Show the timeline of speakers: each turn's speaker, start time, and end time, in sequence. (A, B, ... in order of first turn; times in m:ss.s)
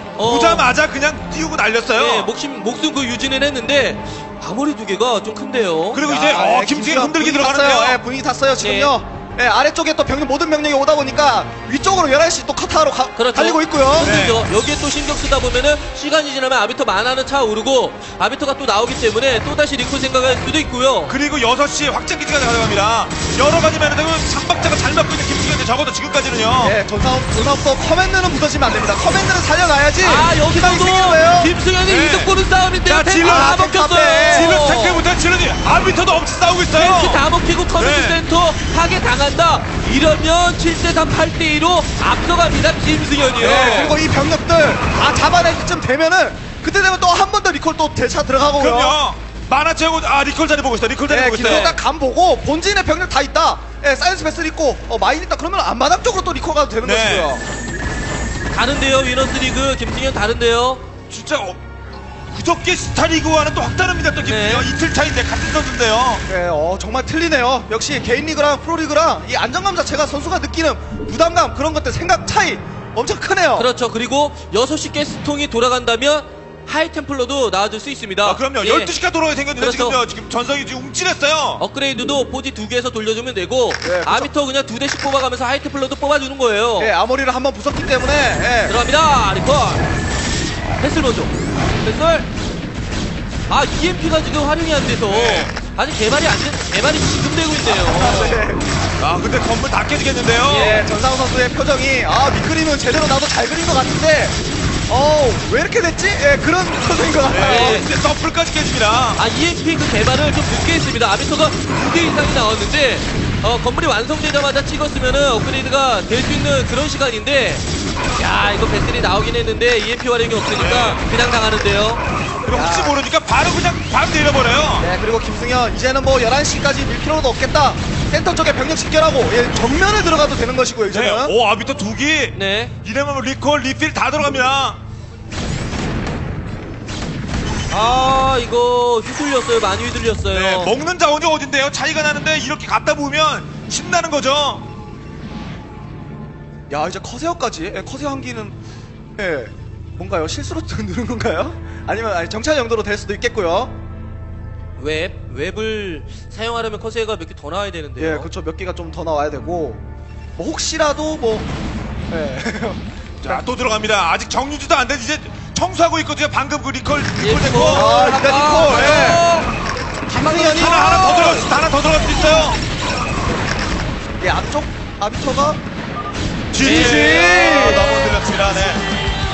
0:00.2-0:00.6 A
0:00.2-0:02.3 B
0:02.0-0:06.0 A
0:05.9-0:08.0 B
0:06.0-0:14.1 C
0:08.6-0:08.9 A
0:13.2-0:21.2 A
0:14.0-0:14.4 B
0:21.1-0:26.8 B
0:26.6-0:31.5 C
0:30.0-0:35.0 A
0:31.9-0:33.6 B
0:33.2-0:34.7 C
0:34.2-0:38.2 B
0:36.8-0:43.9 A
0:43.4-0:44.0 B
0:43.4-0:49.0 C
0:48.6-0:51.8 B
0:51.1-0:57.4 C
0:56.8-0:57.3 B
0:58.5-1:00.8 A
1:01.1-1:01.6 B
1:02.3-1:06.2 B
1:04.2-1:04.6 A
1:06.3-1:13.7 C
1:13.6-1:18.9 A
1:18.2-1:21.6 B
1:19.6-1:20.0 A
1:21.6-1:26.9 A
1:23.8-1:24.3 C
1:26.8-1:28.8 C
1:28.7-1:29.9 A
1:30.8-1:32.3 A
1:33.5-1:38.4 A
1:35.1-1:35.5 B
1:37.6-1:38.6 C
1:39.0-1:40.8 B
1:40.5-1:47.8 C
1:40.5-1:40.8 A
1:47.3-1:49.2 B
1:47.5-1:47.9 A
1:49.2-1:57.6 A
1:58.2-2:02.0 A
2:00.6-2:01.0 B
2:02.4-2:04.9 B
2:02.4-2:03.0 C
2:04.8-2:11.4 C
2:10.9-2:14.8 B
2:12.3-2:12.7 A
2:17.7-2:20.7 A
2:20.3-2:24.6 B
2:26.7-2:28.6 C
2:29.2-2:33.7 C
2:34.8-2:38.3 A
2:38.0-2:39.8 C
2:40.4-2:41.5 C
2:42.1-2:43.4 C
2:43.2-2:47.9 B
2:47.2-2:49.5 A
2:47.7-2:49.2 C
2:50.1-2:51.5 C
2:50.1-2:50.9 A
2:50.4-2:52.6 B
2:54.2-2:55.6 C
2:56.5-2:58.9 B
2:56.6-2:58.1 C
2:56.6-2:57.6 A